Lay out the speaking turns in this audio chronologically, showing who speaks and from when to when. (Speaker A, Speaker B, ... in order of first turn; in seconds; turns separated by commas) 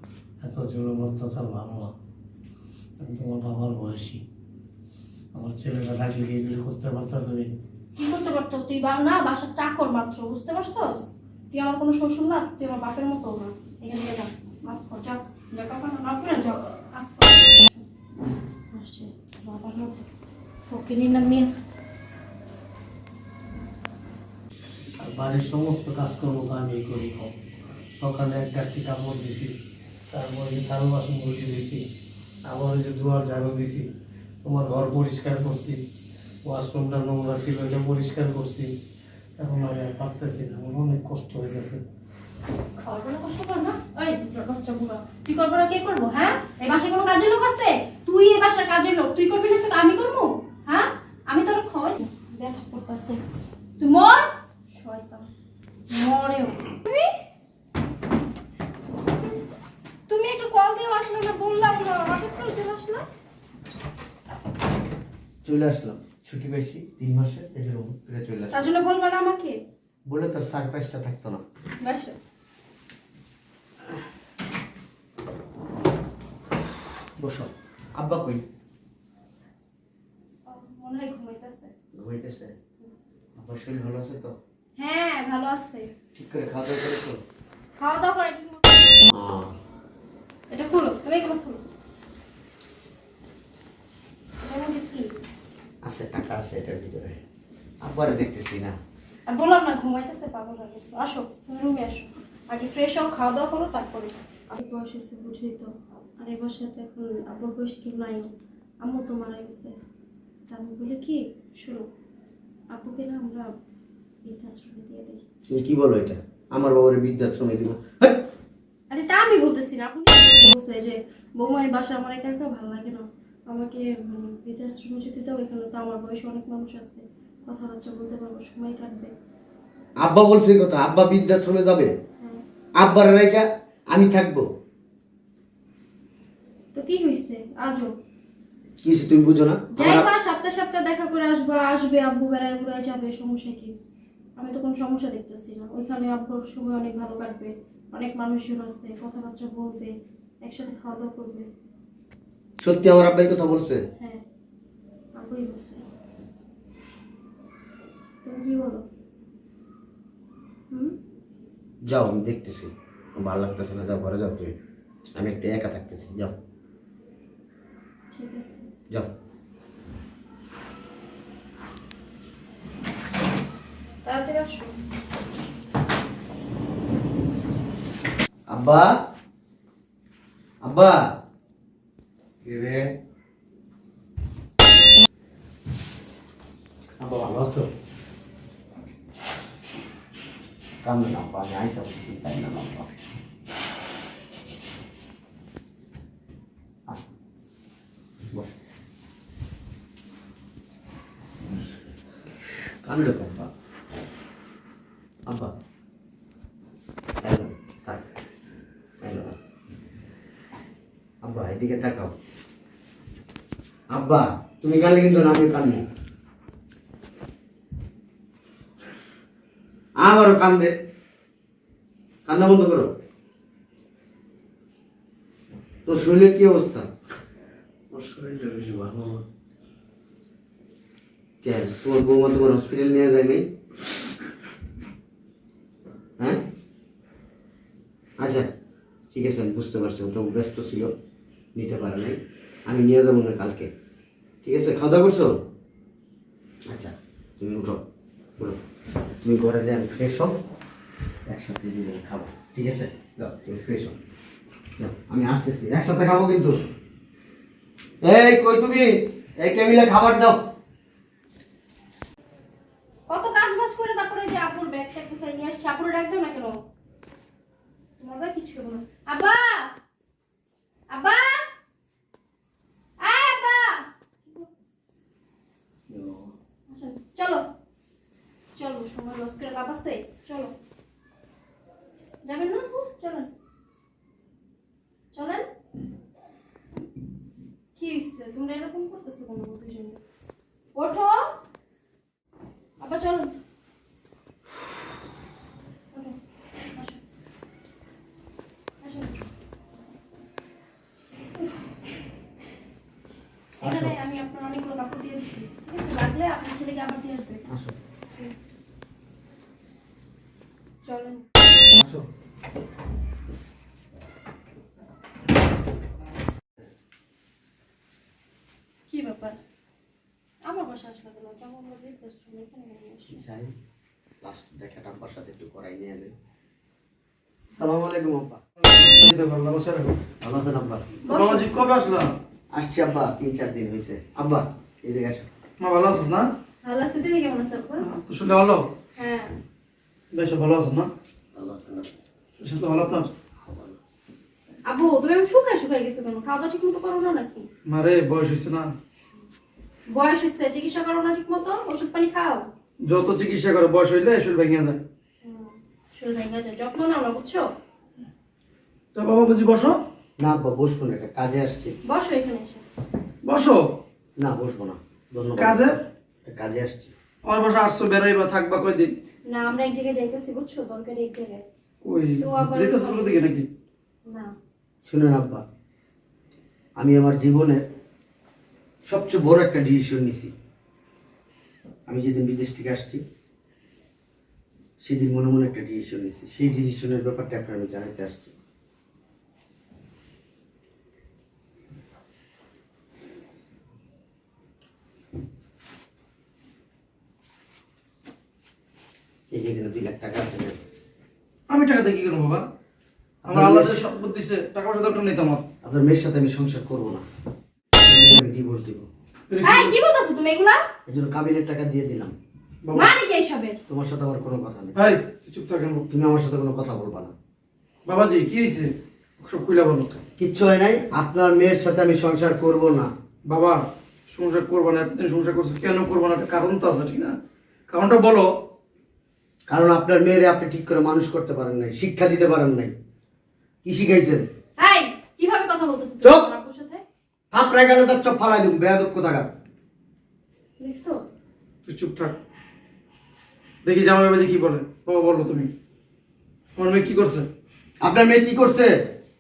Speaker A: 0.4-1.9, Speaker A: 3.0-4.2, Speaker A: 5.3-7.5, Speaker B: 8.0-17.8, Speaker B: 18.7-20.1, Speaker B: 20.7-21.5, Speaker A: 25.0-27.3, Speaker A: 27.9-29.5, Speaker A: 30.1-31.8, Speaker A: 32.5-33.9, Speaker A: 34.4-35.8, Speaker A: 36.5-38.7, Speaker A: 39.4-41.8, Speaker B: 42.8-53.2, Speaker B: 53.8-55.3, Speaker B: 55.9-57.1, Speaker B: 60.1-63.0, Speaker C: 65.5-68.6, Speaker B: 68.5-69.6, Speaker C: 70.1-71.4, Speaker B: 71.8-72.2, Speaker C: 77.2-78.4, Speaker B: 80.5-81.7, Speaker C: 82.0-82.5, Speaker C: 83.4-84.3, Speaker B: 84.8-85.9, Speaker C: 86.2-87.2, Speaker B: 87.8-88.9, Speaker C: 89.1-89.5, Speaker B: 90.5-91.6, Speaker B: 94.4-95.1, Speaker C: 95.8-97.2, Speaker C: 97.8-98.8, Speaker B: 99.3-109.7, Speaker B: 110.5-111.9, Speaker B: 112.7-113.5, Speaker B: 114.2-115.2, Speaker C: 115.5-118.2, Speaker B: 118.9-129.1, Speaker C: 130.0-131.9, Speaker C: 132.8-134.5, Speaker B: 136.7-137.9, Speaker C: 138.8-140.1, Speaker B: 139.8-143.8, Speaker B: 144.4-151.5, Speaker C: 152.6-153.8, Speaker B: 155.2-155.8, Speaker B: 158.2-158.8, Speaker B: 160.7-161.0, Speaker C: 161.9-164.6, Speaker C: 165.2-166.4, Speaker B: 168.1-168.7, Speaker B: 174.0-174.8, Speaker C: 178.5-178.9, Speaker C: 180.6-181.2, Speaker A: 182.4-182.8, Speaker C: 187.0-187.7, Speaker C: 190.8-192.9, Speaker C: 202.8-203.5, Speaker C: 205.3-205.5, Speaker C: 207.2-208.0, Speaker C: 209.0-209.4, Speaker C: 211.2-212.2, Speaker C: 213.9-215.9, Speaker C: 220.0-220.7, Speaker C: 222.3-222.9, Speaker C: 225.9-226.9, Speaker A: 227.9-229.2, Speaker C: 231.4-233.5, Speaker C: 238.2-238.5, Speaker C: 239.1-240.9, Speaker C: 241.6-243.7, Speaker C: 244.4-245.4, Speaker C: 246.7-247.8, Speaker C: 249.2-250.4, Speaker C: 251.3-254.0, Speaker C: 254.8-256.6, Speaker C: 258.0-260.4, Speaker B: 263.1-266.6, Speaker B: 268.0-269.7, Speaker B: 270.9-271.5, Speaker B: 273.0-274.7, Speaker A: 275.9-276.3, Speaker B: 276.7-277.5, Speaker B: 278.6-280.5, Speaker B: 282.3-283.3, Speaker B: 285.1-285.5, Speaker B: 287.8-290.0, Speaker B: 290.7-291.4, Speaker B: 292.8-293.3, Speaker B: 296.7-297.0, Speaker B: 298.8-299.2, Speaker C: 303.6-303.9, Speaker B: 303.6-307.5, Speaker C: 307.5-307.8, Speaker B: 310.8-311.3, Speaker C: 311.8-312.1, Speaker B: 318.9-319.4, Speaker B: 320.4-323.2, Speaker C: 323.2-323.5, Speaker C: 324.2-326.1, Speaker C: 327.5-328.4, Speaker D: 328.6-330.0, Speaker C: 330.2-330.9, Speaker B: 331.0-331.5, Speaker D: 331.1-332.1, Speaker C: 332.5-335.3, Speaker D: 335.6-336.3, Speaker B: 336.6-337.9, Speaker D: 337.8-338.7, Speaker B: 339.0-339.4, Speaker D: 340.1-340.9, Speaker A: 341.4-341.9, Speaker D: 342.4-343.1, Speaker A: 343.4-343.9, Speaker B: 344.7-347.5, Speaker D: 347.7-348.7, Speaker B: 349.9-352.5, Speaker D: 352.8-354.8, Speaker B: 355.2-357.5, Speaker D: 358.9-359.8, Speaker C: 360.2-361.8, Speaker B: 361.9-362.6, Speaker D: 363.2-363.8, Speaker C: 364.2-366.9, Speaker D: 365.4-365.8, Speaker D: 367.2-368.9, Speaker B: 369.3-371.4, Speaker D: 371.8-373.5, Speaker B: 372.2-373.1, Speaker B: 374.1-374.4, Speaker C: 374.9-375.4, Speaker C: 376.8-377.6, Speaker C: 378.9-380.3, Speaker C: 381.9-383.0, Speaker C: 384.8-388.3, Speaker C: 399.3-400.6, Speaker D: 401.5-402.5, Speaker C: 403.2-403.8, Speaker D: 403.3-405.4, Speaker C: 405.6-407.0, Speaker C: 407.8-408.9, Speaker D: 409.3-409.7, Speaker B: 409.4-410.6, Speaker C: 410.9-412.1, Speaker B: 412.7-413.6, Speaker C: 413.7-414.8, Speaker D: 414.8-415.9, Speaker C: 415.9-417.1, Speaker D: 417.9-420.0, Speaker C: 420.2-422.9, Speaker D: 423.3-427.2, Speaker D: 427.7-428.3, Speaker C: 429.5-432.7, Speaker C: 433.6-434.3, Speaker B: 434.6-436.8, Speaker C: 436.0-436.3, Speaker C: 437.3-439.3, Speaker B: 440.6-441.0, Speaker D: 441.7-442.2, Speaker D: 443.6-445.5, Speaker D: 446.6-447.3, Speaker C: 447.8-448.7